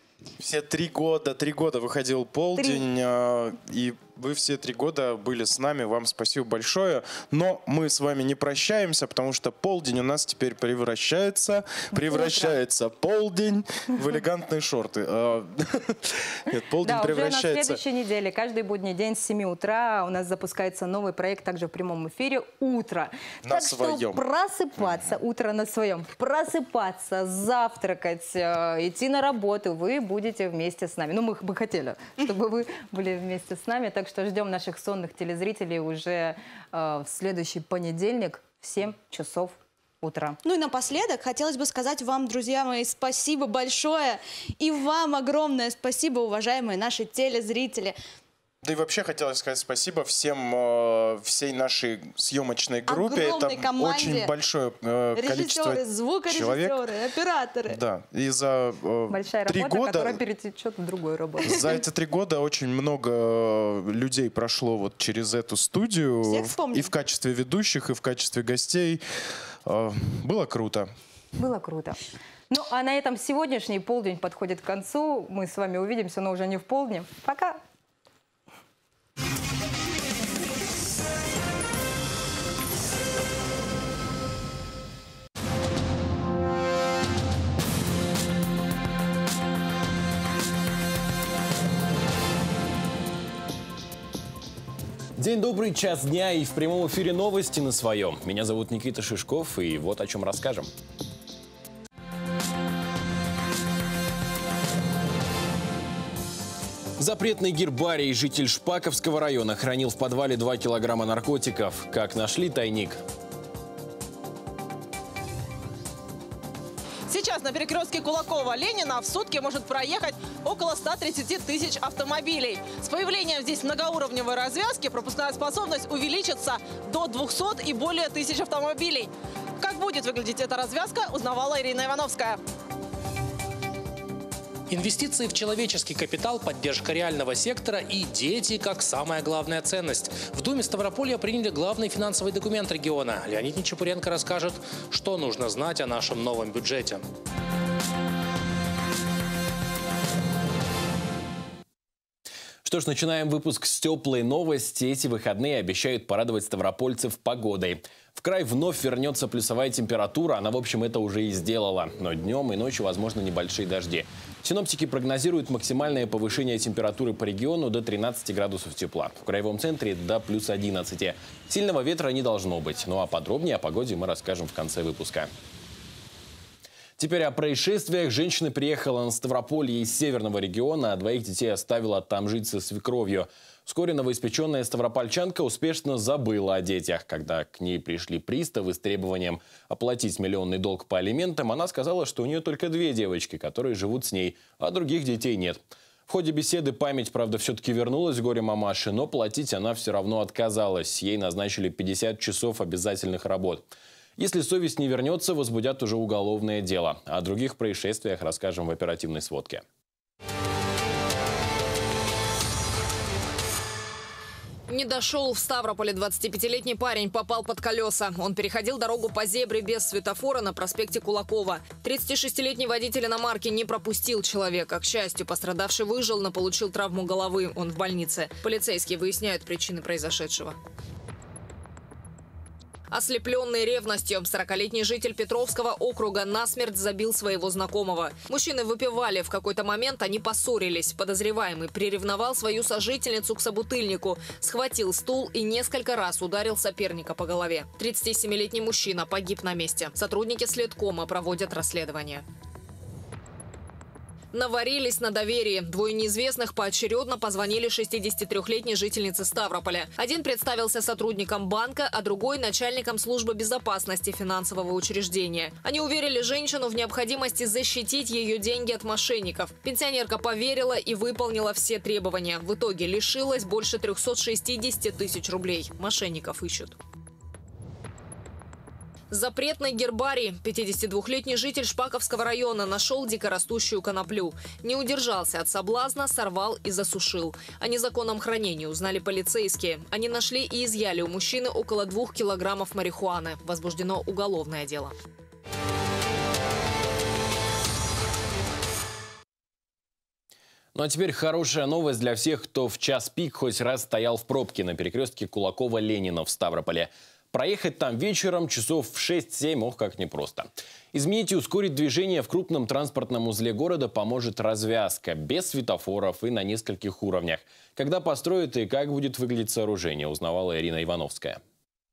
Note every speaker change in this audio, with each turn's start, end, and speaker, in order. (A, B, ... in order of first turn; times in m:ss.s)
0:00.4-0:17.8 A
0:02.6-0:02.8 B
0:11.9-0:12.6 B
0:16.8-0:40.4 B
0:23.4-0:24.2 A
0:40.4-0:48.0 C
0:48.6-0:56.8 A
0:52.8-0:54.3 C
0:55.1-0:57.8 C
0:57.7-1:00.2 A
0:59.1-1:01.6 B
1:01.4-1:09.0 A
1:01.5-1:01.8 C
1:06.2-1:06.9 C
1:09.6-1:10.9 A
1:11.4-1:17.6 B
1:35.2-1:40.7 D
1:47.0-1:53.0 D
1:57.1-2:12.4 E
2:14.7-2:27.0 F
2:32.6-2:55.3 D
2:57.0-3:23.6 D
3:24.2-3:29.6 D
3:34.7-3:50.6 G
3:52.9-4:12.2 G
4:14.3-4:36.8 G
4:39.1-4:54.9 G
5:00.7-5:21.4 D